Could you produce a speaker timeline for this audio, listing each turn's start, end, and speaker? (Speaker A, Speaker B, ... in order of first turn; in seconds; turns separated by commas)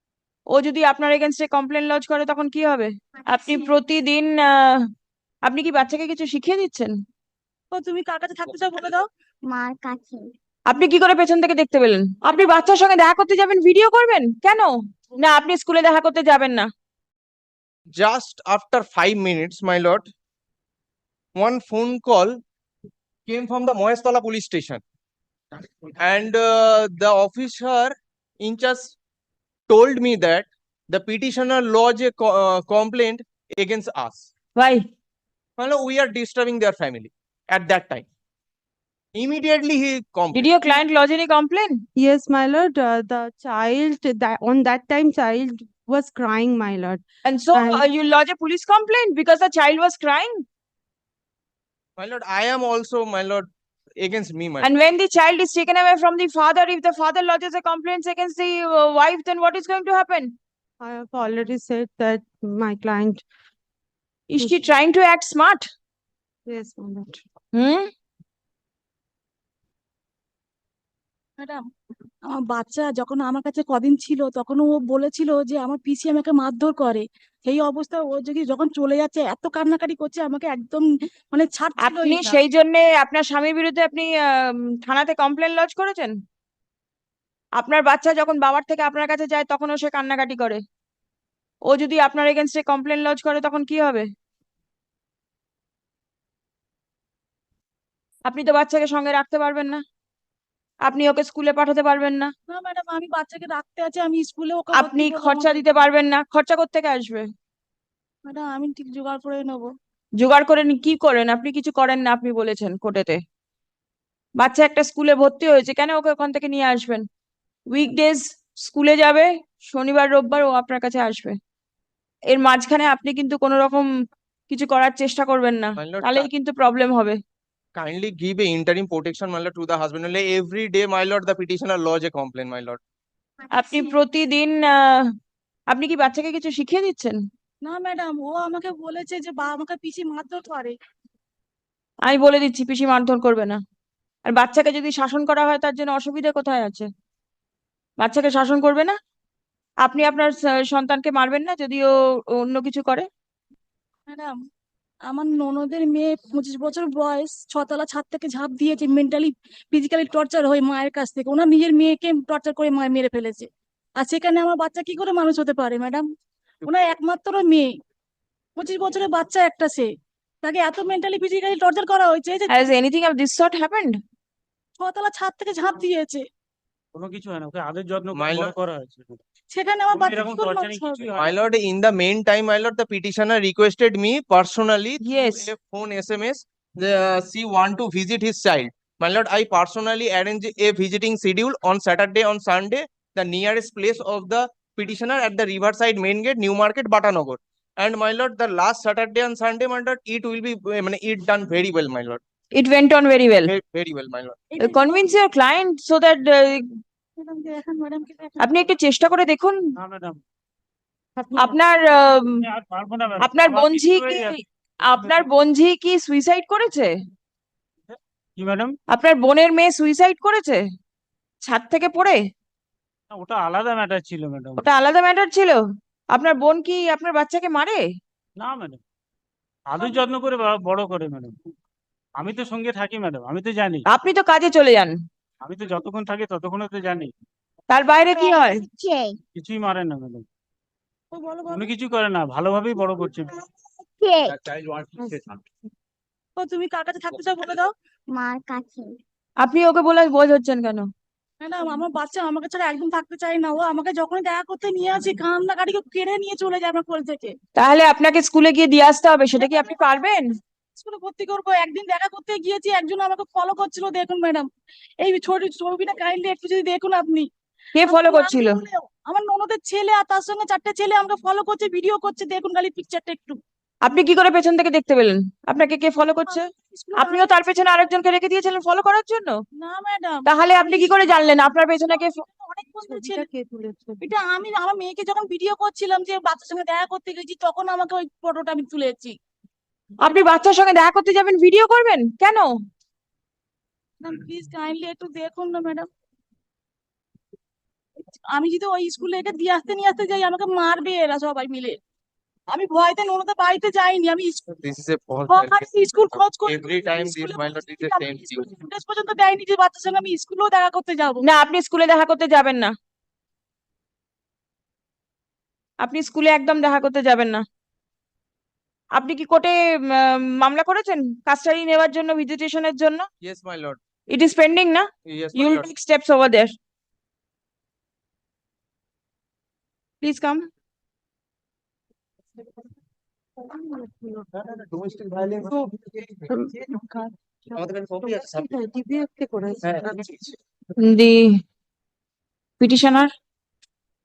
Speaker A: 0.5-4.9, Speaker B: 3.4-3.7, Speaker A: 5.5-7.0, Speaker C: 7.7-9.0, Speaker B: 9.5-10.3, Speaker A: 10.7-16.7, Speaker D: 17.9-20.1, Speaker D: 21.4-22.4, Speaker D: 23.3-24.8, Speaker D: 25.9-29.0, Speaker D: 29.7-34.3, Speaker A: 34.5-34.9, Speaker D: 35.6-38.1, Speaker D: 39.1-40.5, Speaker A: 40.3-41.8, Speaker E: 42.0-47.0, Speaker A: 47.2-50.4, Speaker E: 47.5-47.8, Speaker D: 52.0-54.7, Speaker A: 54.6-60.4, Speaker E: 60.8-63.2, Speaker A: 64.3-65.7, Speaker E: 66.5-67.2, Speaker A: 67.5-67.9, Speaker C: 72.3-82.4, Speaker A: 81.8-86.2, Speaker A: 87.6-90.6, Speaker A: 91.7-94.1, Speaker A: 98.3-99.8, Speaker A: 100.8-102.3, Speaker C: 102.5-105.7, Speaker A: 104.7-107.3, Speaker C: 108.2-109.7, Speaker A: 110.2-113.2, Speaker A: 114.4-117.1, Speaker A: 117.7-121.4, Speaker A: 122.3-123.9, Speaker A: 124.5-127.2, Speaker D: 125.8-126.3, Speaker D: 127.8-132.8, Speaker A: 133.5-135.1, Speaker A: 135.7-137.2, Speaker C: 137.6-140.8, Speaker A: 142.0-143.6, Speaker A: 144.2-146.9, Speaker A: 148.0-149.0, Speaker A: 149.8-153.1, Speaker C: 154.1-154.4, Speaker C: 155.1-163.5, Speaker C: 164.0-166.1, Speaker C: 166.7-167.7, Speaker C: 168.6-169.9, Speaker C: 170.4-172.6, Speaker A: 172.5-174.0, Speaker C: 174.8-176.2, Speaker F: 176.9-179.2, Speaker D: 178.1-178.6, Speaker C: 179.5-181.2, Speaker F: 179.9-181.3, Speaker D: 181.2-202.2, Speaker A: 185.0-185.5, Speaker A: 202.5-203.5, Speaker D: 203.5-204.4, Speaker C: 204.5-205.1, Speaker A: 204.6-206.7, Speaker C: 207.2-208.5, Speaker A: 208.4-209.6, Speaker F: 209.8-210.2, Speaker E: 211.2-211.6, Speaker A: 211.4-212.4, Speaker F: 212.4-214.4, Speaker A: 213.2-216.9, Speaker F: 214.9-215.2, Speaker F: 217.9-218.8, Speaker A: 218.9-220.6, Speaker A: 221.4-222.2, Speaker F: 223.1-224.6, Speaker A: 224.6-225.6, Speaker A: 226.1-227.8, Speaker F: 228.4-228.8, Speaker F: 229.7-231.4, Speaker F: 232.2-233.9, Speaker A: 233.9-235.0, Speaker F: 235.4-237.1, Speaker A: 237.7-238.7, Speaker B: 238.2-239.2, Speaker F: 239.3-240.2, Speaker C: 241.1-241.7, Speaker F: 241.5-243.4, Speaker B: 244.0-244.4, Speaker F: 244.3-245.4, Speaker C: 246.4-247.7, Speaker B: 248.1-248.9, Speaker A: 249.4-250.9, Speaker C: 251.4-257.4, Speaker A: 257.6-260.4, Speaker C: 260.8-264.5, Speaker C: 265.0-273.4, Speaker A: 267.8-268.6, Speaker A: 273.8-279.4, Speaker C: 276.2-277.3, Speaker C: 279.6-281.2, Speaker A: 280.3-282.2, Speaker C: 281.9-283.3, Speaker E: 282.9-284.0, Speaker C: 284.0-289.1, Speaker A: 290.0-292.5, Speaker C: 294.0-295.9, Speaker C: 298.1-301.8, Speaker C: 302.5-304.5, Speaker D: 304.5-308.5, Speaker C: 305.3-311.2, Speaker A: 311.2-312.7, Speaker A: 315.8-317.4, Speaker A: 318.9-323.1, Speaker D: 323.2-323.8, Speaker A: 324.1-326.5, Speaker D: 325.1-325.7, Speaker A: 330.0-330.5, Speaker E: 333.4-334.3, Speaker D: 334.3-336.8, Speaker E: 335.4-335.7, Speaker E: 336.3-340.0, Speaker D: 337.6-338.5, Speaker D: 339.6-340.4, Speaker A: 340.8-341.4, Speaker A: 342.6-343.1